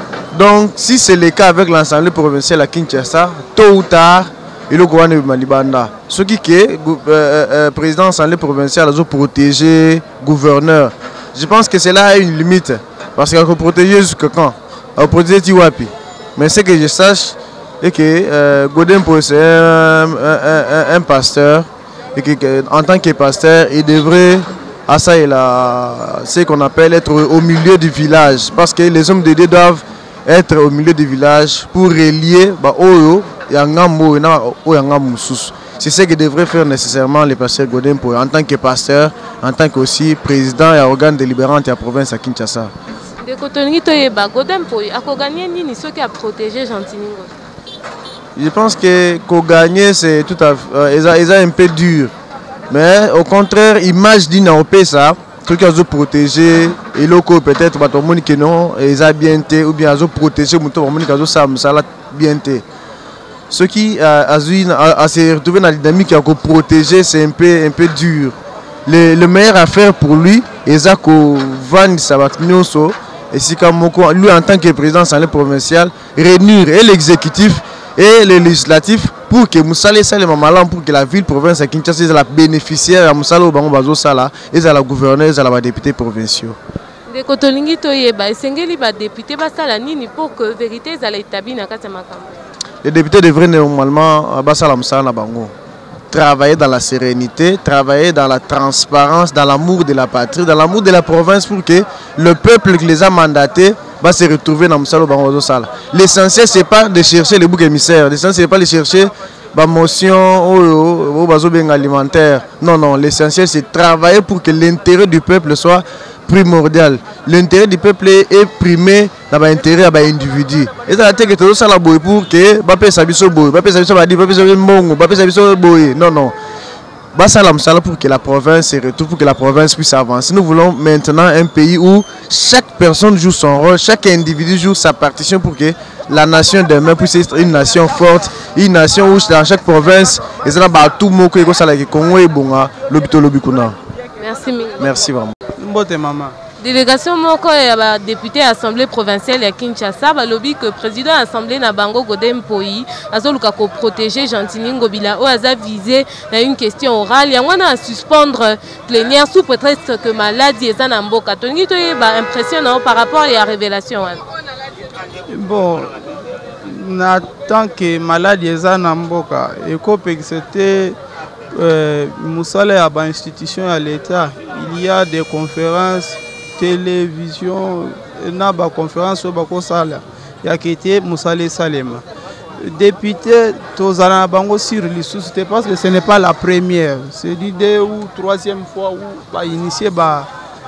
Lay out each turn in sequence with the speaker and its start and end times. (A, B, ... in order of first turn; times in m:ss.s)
0:00.3-0:42.7 A
0:43.2-0:47.3 B
0:48.4-0:52.1 A
0:52.7-1:02.6 A
1:03.5-1:26.6 A
1:27.1-1:32.4 B
1:32.8-1:35.5 A
1:36.1-2:06.3 A
2:07.1-2:23.8 A
2:24.2-2:24.9 B
2:24.8-2:25.4 A
2:25.6-2:26.4 C
2:26.6-2:44.2 B
2:45.3-2:45.9 C
2:46.6-2:51.0 C
2:51.5-3:02.0 C
3:02.6-3:10.3 C